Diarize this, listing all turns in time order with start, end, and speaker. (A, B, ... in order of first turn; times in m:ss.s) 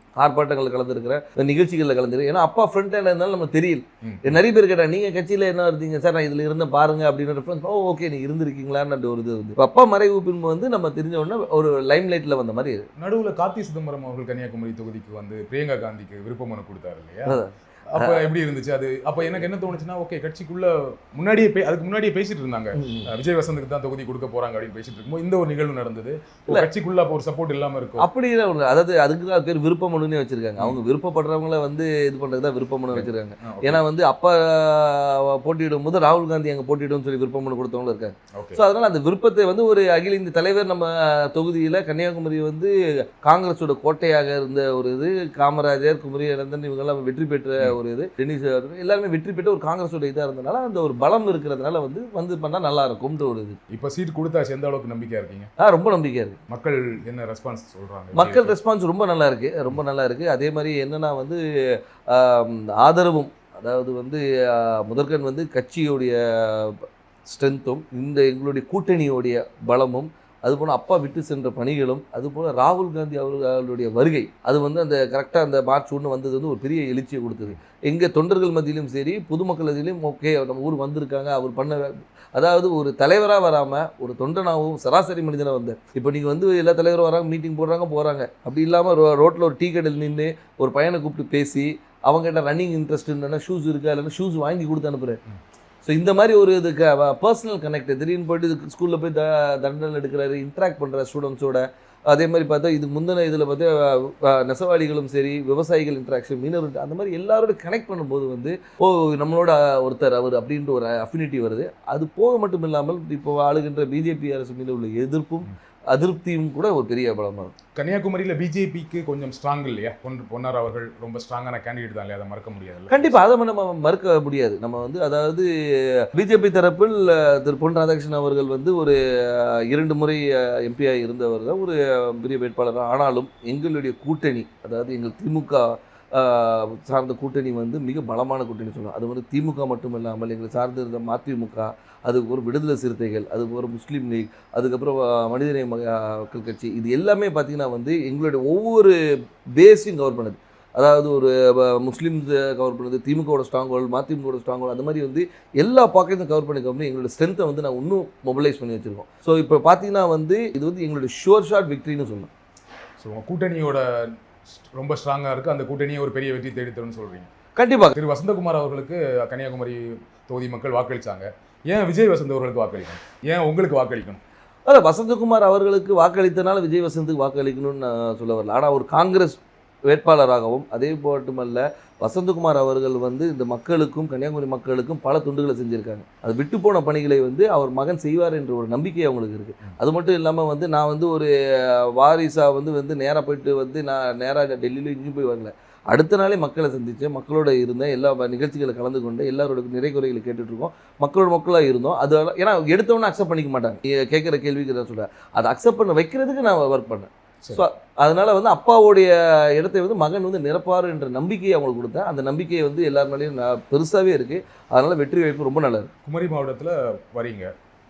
0:00.2-0:12.8 A
0:04.0-0:04.4 B
0:13.0-0:28.1 B
0:17.2-0:18.2 A
0:22.7-0:23.1 A
0:28.0-0:53.6 A
0:32.9-0:33.8 B
0:38.3-0:38.6 B
0:53.7-0:55.5 B
0:55.6-0:56.4 A
0:56.5-0:58.6 B
0:58.1-1:35.2 A
1:35.8-1:57.5 A
1:57.7-2:03.2 B
2:02.9-2:29.0 A
2:29.6-2:42.3 A
2:43.0-2:43.8 B
2:44.5-2:47.3 B
2:47.6-2:48.0 A
2:47.9-2:54.2 B
2:54.7-3:35.9 A
3:36.0-3:37.5 B